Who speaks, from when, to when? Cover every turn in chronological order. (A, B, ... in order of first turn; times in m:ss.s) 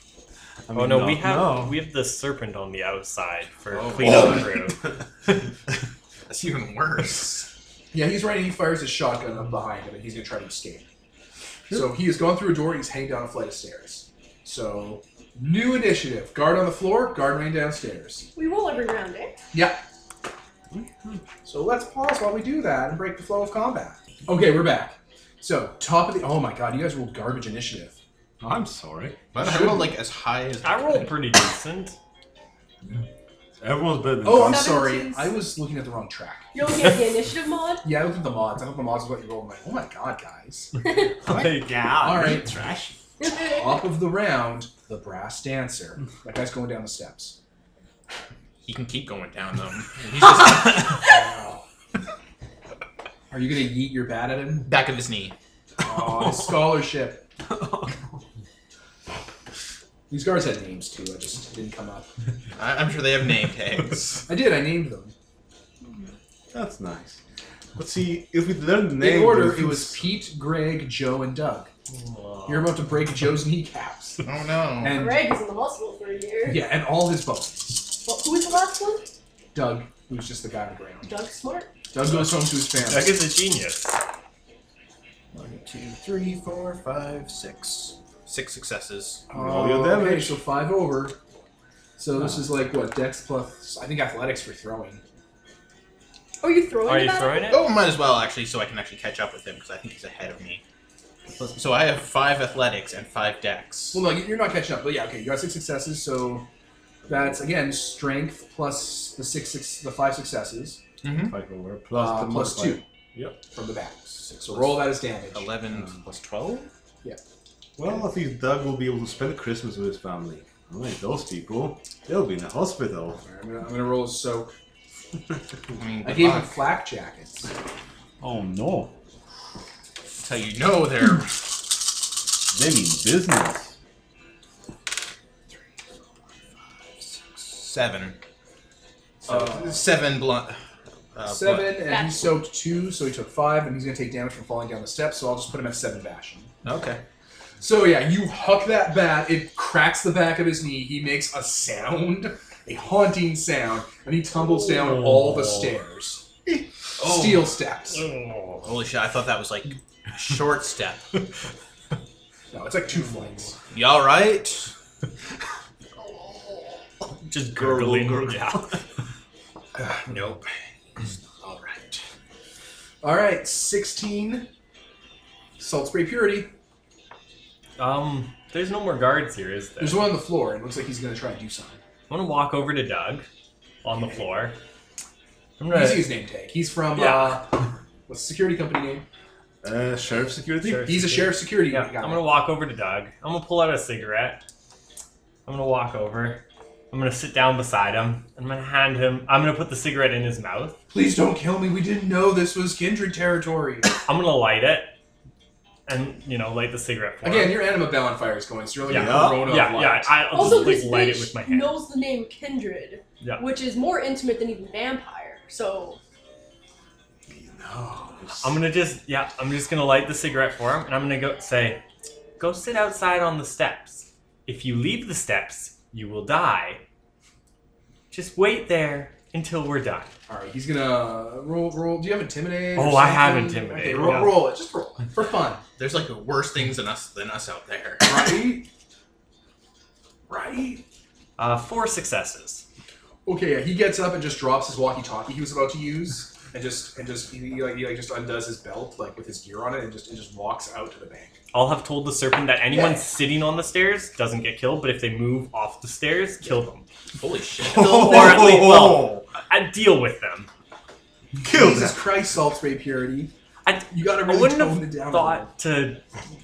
0:00.7-0:01.8 A
0:00.7-0:04.8 B
0:03.7-0:04.4 C
0:04.0-0:04.4 A
0:06.3-0:07.5 C
0:07.9-0:10.8 D
0:11.7-0:11.9 A
0:11.7-0:18.3 D
0:18.4-0:19.4 E
0:19.5-0:19.8 D
0:20.7-0:21.2 A
0:21.4-0:28.0 D
0:28.4-0:29.2 A
0:29.3-0:31.2 C
0:29.4-0:29.9 D
0:30.6-0:32.0 B
0:33.6-0:34.8 A
0:34.2-0:36.5 D
0:34.3-0:35.3 E
0:36.5-0:37.9 E
0:37.8-0:40.7 D
0:40.8-0:41.1 E
0:41.2-0:43.0 A
0:41.3-0:41.9 B
0:42.0-0:42.5 D
0:43.2-0:43.8 E
0:43.3-0:47.4 D
0:48.6-0:51.1 C
0:51.0-0:51.6 D
0:53.3-0:54.7 D
0:54.7-0:55.3 C
0:55.8-0:57.2 D
0:56.2-0:56.6 A
0:57.4-0:58.2 A
1:00.1-1:02.1 D
1:02.6-1:04.2 C
1:04.3-1:05.1 D
1:06.5-1:07.2 A
1:07.8-1:10.2 A
1:09.0-1:11.7 D
1:11.9-1:12.7 B
1:12.5-1:14.2 D
1:14.2-1:15.0 C
1:14.8-1:15.3 D
1:14.9-1:16.7 E
1:16.4-1:17.9 D
1:18.0-1:19.0 E
1:19.5-1:21.1 D
1:21.0-1:21.7 E
1:21.9-1:23.2 D
1:22.2-1:24.0 B
1:25.3-1:29.2 C
1:29.3-1:31.2 D
1:29.3-1:30.4 A
1:32.0-1:35.0 D
1:36.4-1:37.6 E
1:36.8-1:37.6 B
1:37.5-1:40.6 C
1:41.4-1:44.0 C
1:43.9-1:46.4 D
1:47.1-1:50.8 D
1:51.0-1:51.3 C
1:51.2-1:53.4 A
1:51.9-1:52.8 D
1:53.5-1:55.5 D
1:54.5-1:56.7 C
1:57.8-2:03.2 A
2:03.2-2:04.5 D
2:05.8-2:06.6 C
2:06.0-2:07.5 D
2:08.2-2:08.9 A
2:10.2-2:11.5 C
2:12.5-2:13.7 A
2:17.0-2:18.2 C
2:19.2-2:19.8 D
2:19.3-2:20.6 C
2:21.1-2:21.8 C
2:21.3-2:26.5 D
2:21.8-2:22.3 E
2:26.6-2:27.0 C
2:27.6-2:36.2 D
2:34.7-2:35.7 B
2:36.5-2:37.5 C
2:37.0-2:38.1 D
2:38.2-2:38.6 B
2:38.6-2:41.1 C
2:42.5-2:43.6 D
2:43.7-2:44.7 C
2:47.2-2:48.6 B
2:47.5-2:48.8 A
2:49.9-2:50.3 C
2:51.4-2:52.0 C
2:53.0-2:54.5 D
2:55.6-2:56.5 D
2:57.8-3:00.1 B
2:59.8-3:01.8 D
3:02.1-3:03.3 B
3:03.8-3:04.6 B
3:05.6-3:06.1 B
3:05.7-3:07.5 D
3:07.0-3:07.4 B
3:08.1-3:09.0 D
3:09.6-3:11.1 A
3:10.6-3:14.4 B
3:10.7-3:12.2 D
3:15.4-3:20.8 B
3:20.9-3:23.9 D
3:24.0-3:24.9 B
3:25.9-3:27.6 B
3:27.2-3:30.6 D
3:28.9-3:29.6 A
3:28.9-3:31.8 B
3:30.3-3:36.0 E
3:33.2-3:33.5 B
3:37.3-3:38.6 A
3:38.4-3:41.8 B
3:42.4-3:46.8 B
3:48.1-3:50.1 B
3:50.3-3:55.6 D
3:52.8-3:54.4 B
3:55.8-3:58.3 C
3:58.0-3:58.7 D
4:00.3-4:00.8 D
4:01.4-4:02.6 B
4:03.2-4:11.4 D
4:11.5-4:16.8 B
4:12.7-4:13.0 D
4:17.2-4:18.5 C
4:17.6-4:19.2 A
4:17.7-4:20.5 B
4:21.4-4:22.0 A
4:21.4-4:23.3 D
4:23.6-4:26.0 B
4:23.9-4:25.5 D